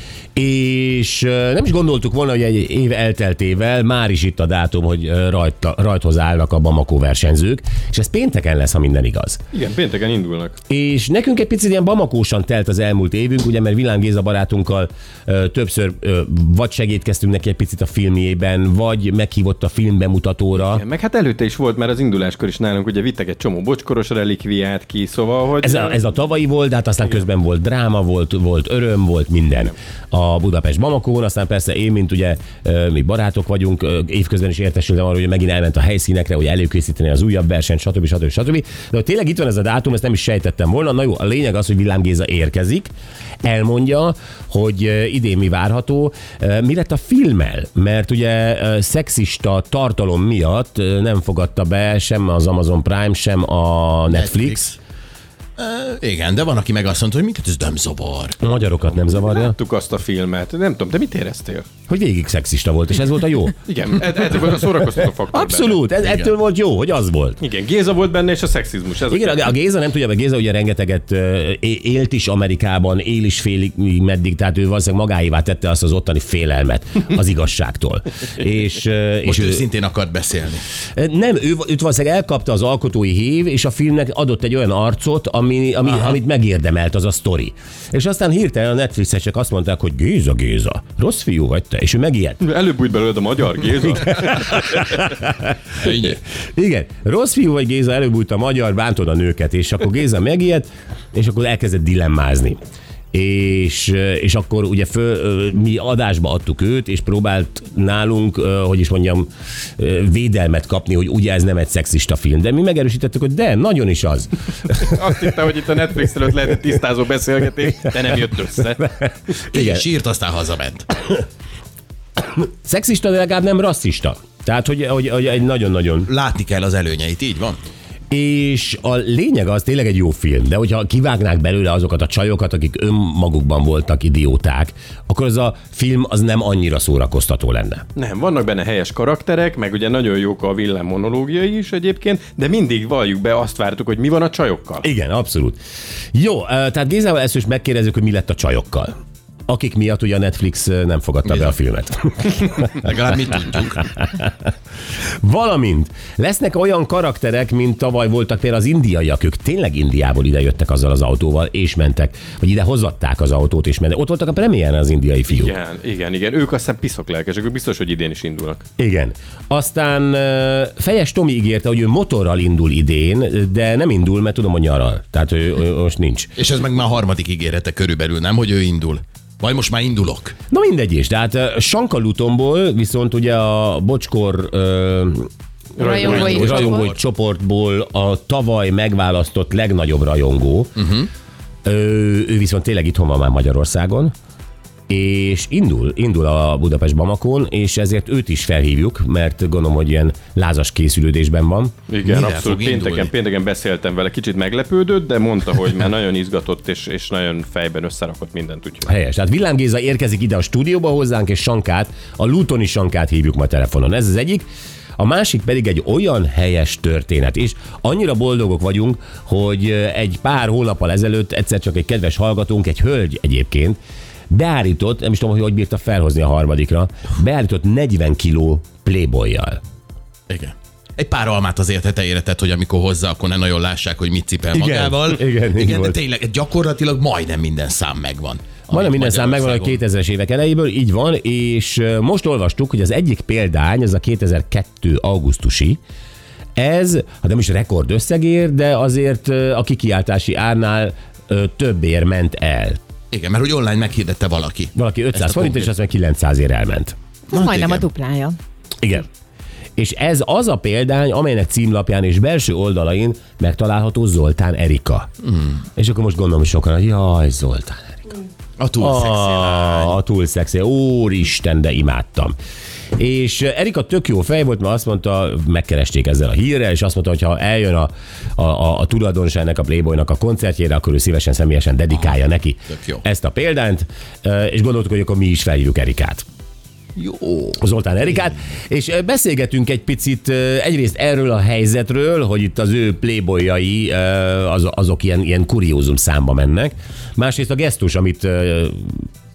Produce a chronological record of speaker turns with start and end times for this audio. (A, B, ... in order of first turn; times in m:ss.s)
0:00.4-0:09.4 A
0:09.5-0:10.6 B
0:10.7-0:20.8 A
0:20.6-0:26.0 B
0:25.6-0:42.9 A
0:43.4-0:54.6 A
0:54.1-0:54.8 C
0:55.6-0:58.4 C
0:58.4-0:59.6 A
0:59.1-1:01.7 B
1:01.9-1:03.6 A
1:03.7-1:05.8 B
1:05.3-1:07.4 A
1:07.4-1:09.4 B
1:09.1-1:19.7 A
1:19.2-1:20.6 C
1:20.9-1:32.4 A
1:32.4-1:34.9 B
1:34.0-1:35.5 A
1:35.8-1:36.2 C
1:36.5-1:42.6 A
1:43.1-1:54.3 A
1:54.7-1:58.8 B
1:59.0-1:59.8 A
1:59.5-2:00.9 C
2:02.4-2:06.1 A
2:06.1-2:07.6 C
2:08.1-2:17.8 A
2:17.9-2:24.8 B
2:24.8-2:25.6 A
2:26.1-2:28.9 A
2:29.5-2:32.6 A
2:32.7-2:33.9 C
2:34.0-2:34.3 A
2:35.2-2:45.5 A
2:45.3-2:48.6 B
2:48.8-2:56.3 A
2:56.4-3:00.3 C
3:00.5-3:05.3 A
3:05.8-3:06.7 B
3:05.8-3:06.9 D
3:05.9-3:10.9 A
3:11.6-3:14.1 A
3:14.9-3:21.7 A
3:21.9-3:28.9 B
3:22.0-3:23.1 C
3:28.9-3:34.4 A
3:35.0-3:43.8 A
3:44.3-3:49.6 A
3:50.3-3:59.8 C
3:54.5-3:56.0 A
3:58.7-4:05.8 A
4:06.6-4:12.8 A
4:13.1-4:15.7 C
4:14.7-4:16.9 A
4:17.3-4:18.4 D
4:17.3-4:17.8 C
4:18.8-4:19.1 A
4:19.8-4:25.1 A
4:25.8-4:28.2 A
4:28.6-4:30.0 C
4:28.8-4:32.3 A
4:33.0-4:46.2 A
4:42.8-4:43.0 C
4:47.0-4:47.6 C
4:47.6-4:59.0 A